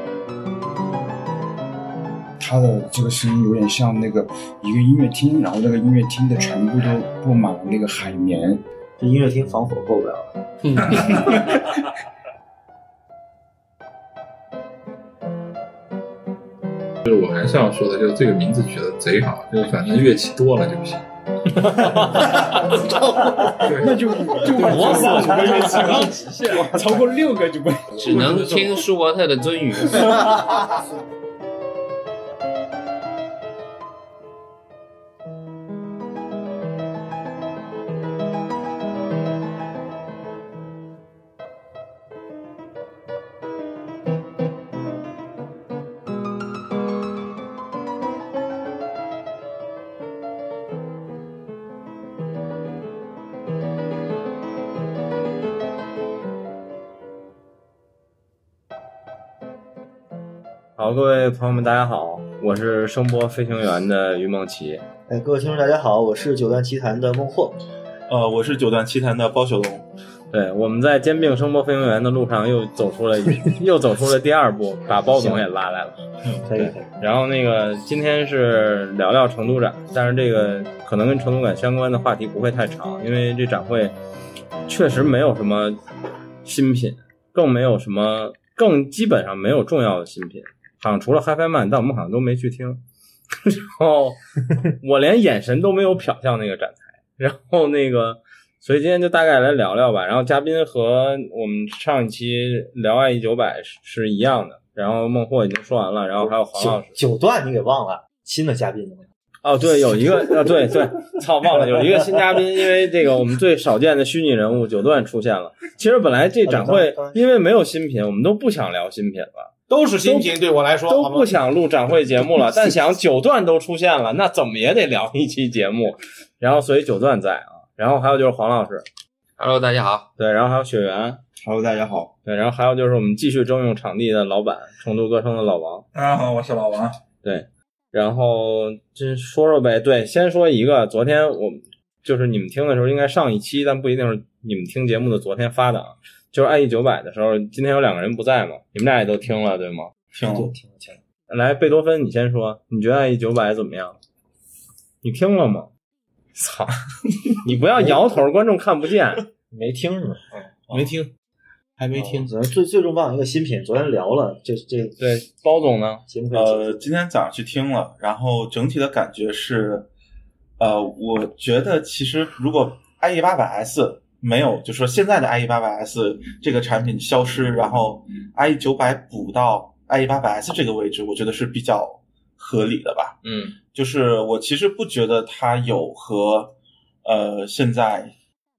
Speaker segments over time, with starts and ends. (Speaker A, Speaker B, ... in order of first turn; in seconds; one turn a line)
Speaker A: 2.4-8.6
Speaker B: 9.0-10.3
Speaker C: 10.6-11.5
Speaker A: 11.1-11.4
Speaker D: 17.1-21.0
Speaker E: 21.5-22.8
Speaker A: 21.9-28.3
Speaker D: 23.6-27.0
Speaker E: 24.6-26.0
Speaker D: 28.0-28.8
Speaker C: 28.0-30.4
Speaker A: 29.9-30.5
Speaker E: 60.8-64.8
Speaker B: 65.1-67.6
Speaker F: 68.1-69.9
Speaker E: 70.3-76.0
Speaker B: 76.4-76.8
Speaker E: 76.5-83.9
Speaker E: 84.7-85.8
Speaker E: 86.4-92.8
Speaker E: 93.4-107.0
Speaker B: 106.2-109.1
Speaker E: 109.4-120.3
Speaker B: 116.4-117.2
Speaker G: 119.7-121.3
Speaker E: 120.8-128.8
Speaker C: 129.4-130.1
Speaker E: 130.2-131.2
Speaker A: 131.4-132.1
Speaker E: 132.2-135.8
Speaker D: 135.9-137.0
Speaker E: 137.2-149.9
Speaker F: 150.1-150.5
Speaker B: 150.2-151.0
Speaker E: 151.3-153.9
Speaker E: 155.0-155.7
Speaker E: 156.3-156.8
Speaker E: 157.4-159.2
Speaker B: 157.7-158.2
Speaker B: 159.5-160.9
Speaker E: 160.7-161.1
Speaker G: 161.8-162.3
Speaker B: 161.9-165.0
Speaker E: 165.0-166.0
Speaker B: 166.1-166.9
Speaker F: 166.3-169.9
Speaker F: 170.6-183.2
Speaker E: 183.2-183.6
Speaker F: 183.7-188.1